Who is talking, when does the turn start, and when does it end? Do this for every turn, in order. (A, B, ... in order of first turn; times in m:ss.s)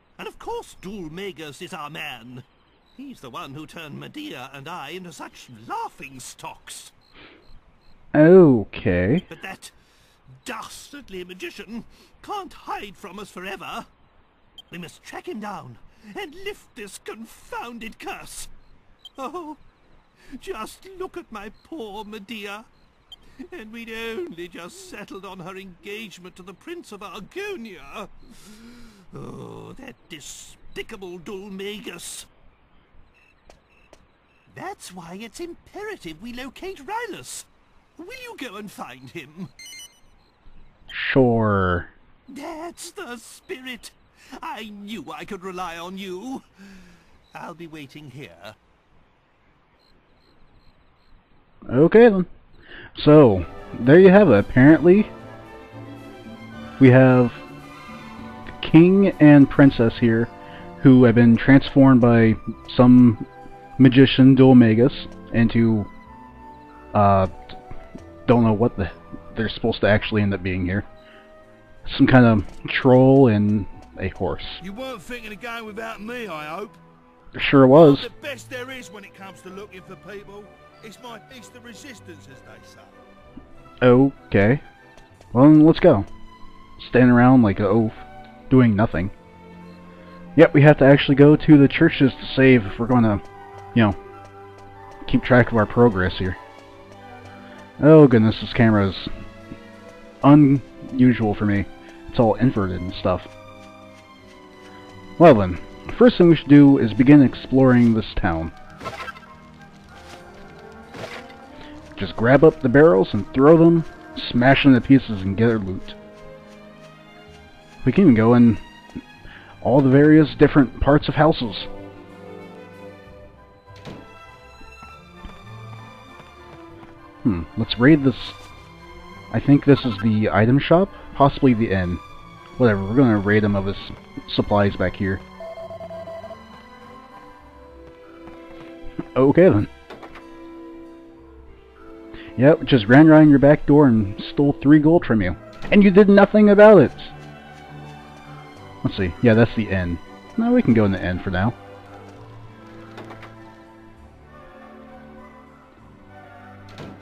0:00.2-0:06.9 A
0:08.1-0:09.2 B
0:09.3-0:09.7 A
0:10.4-0:13.9 A
0:14.7-0:18.5 A
0:19.2-0:19.6 A
0:20.3-0:22.7 A
0:23.4-0:32.3 A
0:34.5-0:39.5 A
0:40.9-0:41.9 B
0:42.3-0:48.6 A
0:51.7-0:52.3 B
0:53.0-0:55.1 B
0:56.8-0:57.4 B
0:58.6-1:03.2 B
1:03.8-1:05.9 B
1:06.9-1:07.5 B
1:08.3-1:10.8 B
1:11.8-1:14.6 B
1:14.6-1:16.8 C
1:17.3-1:18.1 B
1:17.7-1:23.0 C
1:23.8-1:24.6 B
1:25.3-1:26.1 B
1:26.8-1:29.1 B
1:30.4-1:33.2 B
1:35.0-1:36.4 B
1:37.8-1:39.1 B
1:40.2-1:43.3 B
1:45.2-1:48.5 B
1:52.0-1:56.0 B
1:57.8-1:58.6 B
1:59.6-2:01.7 B
2:07.2-2:08.4 B
2:09.3-2:12.0 B
2:12.6-2:15.2 B
2:19.2-2:19.7 B
2:22.4-2:27.1 B
2:28.8-2:31.6 B